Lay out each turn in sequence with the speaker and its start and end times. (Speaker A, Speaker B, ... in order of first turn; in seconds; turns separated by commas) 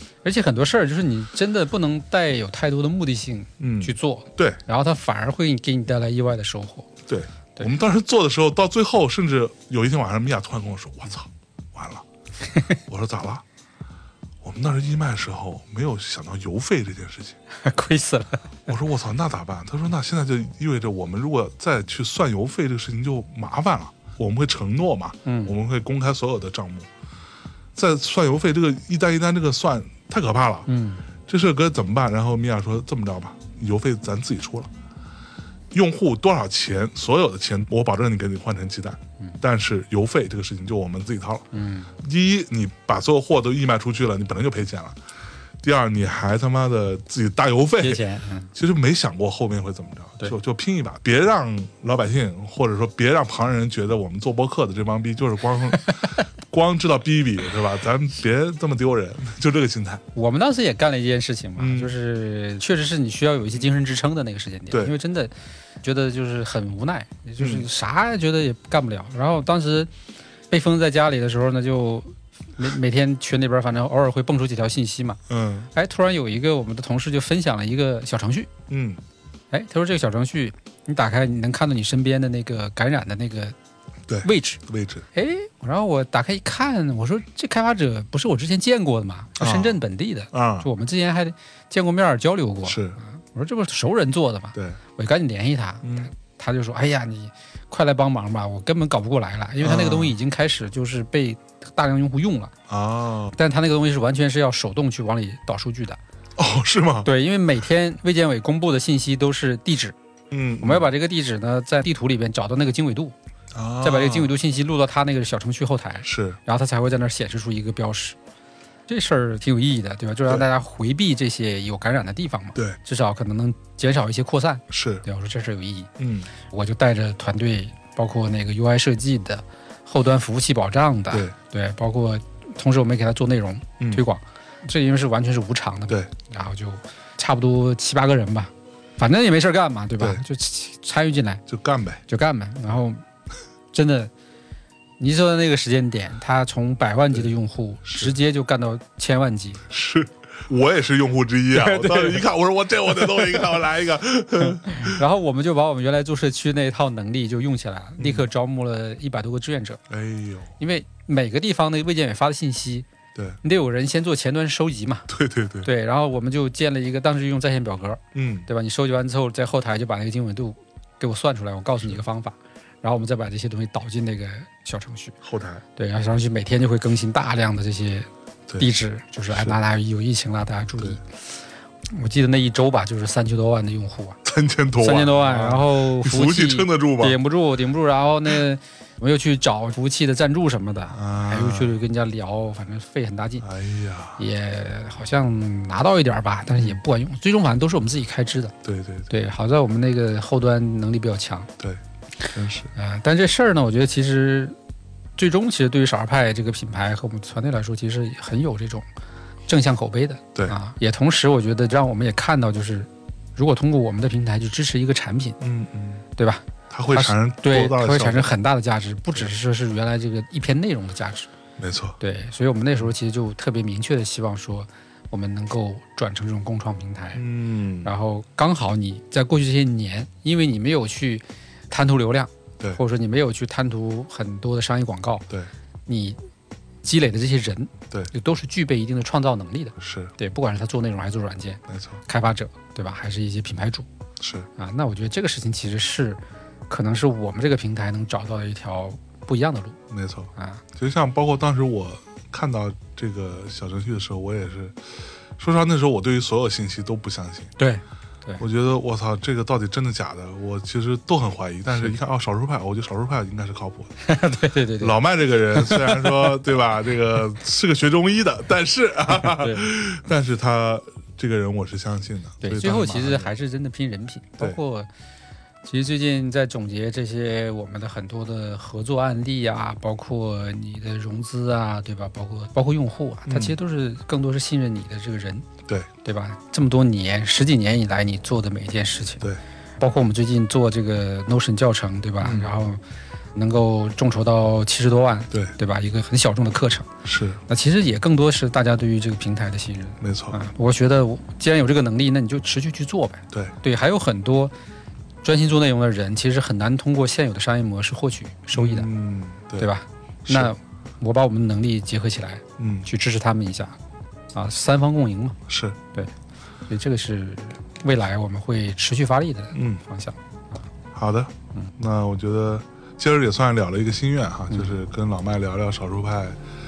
Speaker A: 0.2-6.9, Speaker B: 3.6-4.6, Speaker B: 7.1-12.1, Speaker A: 12.5-12.8, Speaker B: 12.8-13.4, Speaker B: 14.4-17.4, Speaker A: 17.6-18.5, Speaker B: 18.7-26.9, Speaker A: 25.3-25.6, Speaker B: 27.8-30.7, Speaker A: 30.7-31.0, Speaker B: 31.3-34.7, Speaker B: 35.7-41.5, Speaker A: 41.5-41.9, Speaker B: 42.0-45.0, Speaker B: 45.6-60.0, Speaker A: 47.8-48.5, Speaker A: 60.1-69.9, Speaker B: 61.6-62.0, Speaker B: 67.4-67.7, Speaker A: 70.5-75.2, Speaker B: 75.3-75.7, Speaker A: 75.7-78.5, Speaker B: 78.7-79.0, Speaker A: 79.5-83.5, Speaker B: 84.1-85.1, Speaker A: 84.2-84.6, Speaker A: 85.1-102.5, Speaker B: 89.4-89.8, Speaker B: 90.3-90.7, Speaker B: 92.7-93.0, Speaker B: 95.8-96.1, Speaker B: 99.6-100.2, Speaker B: 102.7-103.3, Speaker A: 103.3-106.0, Speaker B: 106.4-107.1, Speaker A: 107.0-110.0, Speaker B: 110.3-110.9, Speaker A: 110.6-113.2, Speaker B: 113.5-114.4, Speaker A: 113.8-118.2, Speaker B: 116.0-116.4, Speaker A: 118.9-125.9, Speaker B: 124.7-125.0, Speaker B: 126.0-126.3, Speaker A: 126.4-141.4, Speaker B: 140.0-140.2, Speaker B: 141.5-142.1, Speaker A: 142.1-143.0, Speaker A: 143.7-144.1, Speaker A: 145.0-149.6, Speaker B: 147.9-148.1, Speaker B: 149.7-155.0, Speaker A: 151.5-152.2, Speaker A: 153.2-153.4, Speaker A: 154.5-159.8, Speaker B: 158.0-158.3, Speaker B: 159.9-160.6, Speaker A: 160.6-162.9, Speaker A: 163.4-165.1, Speaker B: 165.1-165.7, Speaker A: 165.6-175.2, Speaker B: 168.2-168.5, Speaker B: 175.2-175.6, Speaker A: 175.8-184.2, Speaker B: 179.3-179.6, Speaker B: 184.2-187.2, Speaker A: 184.8-193.4, Speaker B: 190.9-191.8, Speaker B: 193.4-194.2, Speaker A: 194.2-198.5, Speaker B: 198.6-199.1, Speaker A: 199.1-201.5, Speaker B: 202.3-202.7, Speaker A: 202.7-204.6, Speaker A: 205.2-208.9, Speaker A: 209.5-215.4, Speaker B: 215.4-216.1, Speaker A: 216.2-221.3, Speaker B: 216.7-218.3, Speaker B: 221.6-222.0, Speaker A: 222.0-227.2, Speaker B: 227.2-227.9, Speaker A: 227.8-235.3, Speaker A: 235.9-236.2, Speaker A: 236.8-243.9, Speaker B: 239.8-240.1, Speaker B: 241.7-242.0, Speaker B: 244.2-244.5, Speaker A: 244.6-249.8, Speaker B: 249.9-257.5, Speaker A: 250.4-250.6, Speaker A: 257.6-258.4, Speaker B: 258.4-263.9, Speaker A: 264.0-265.0, Speaker B: 264.8-273.3, Speaker A: 265.5-266.4, Speaker A: 269.1-269.7, Speaker A: 272.4-274.9, Speaker A: 275.6-285.5, Speaker B: 283.3-283.6, Speaker A: 286.0-289.3, Speaker A: 289.8-292.8, Speaker B: 292.2-292.5, Speaker A: 293.4-296.9, Speaker B: 297.1-297.4, Speaker A: 297.5-304.5, Speaker B: 300.0-300.4, Speaker A: 305.2-308.9, Speaker B: 308.5-309.7, Speaker A: 309.6-313.8, Speaker B: 310.3-310.6, Speaker B: 312.6-312.9, Speaker A: 314.3-315.4, Speaker B: 315.5-315.8, Speaker A: 316.7-320.6, Speaker B: 319.5-319.8, Speaker B: 320.9-326.4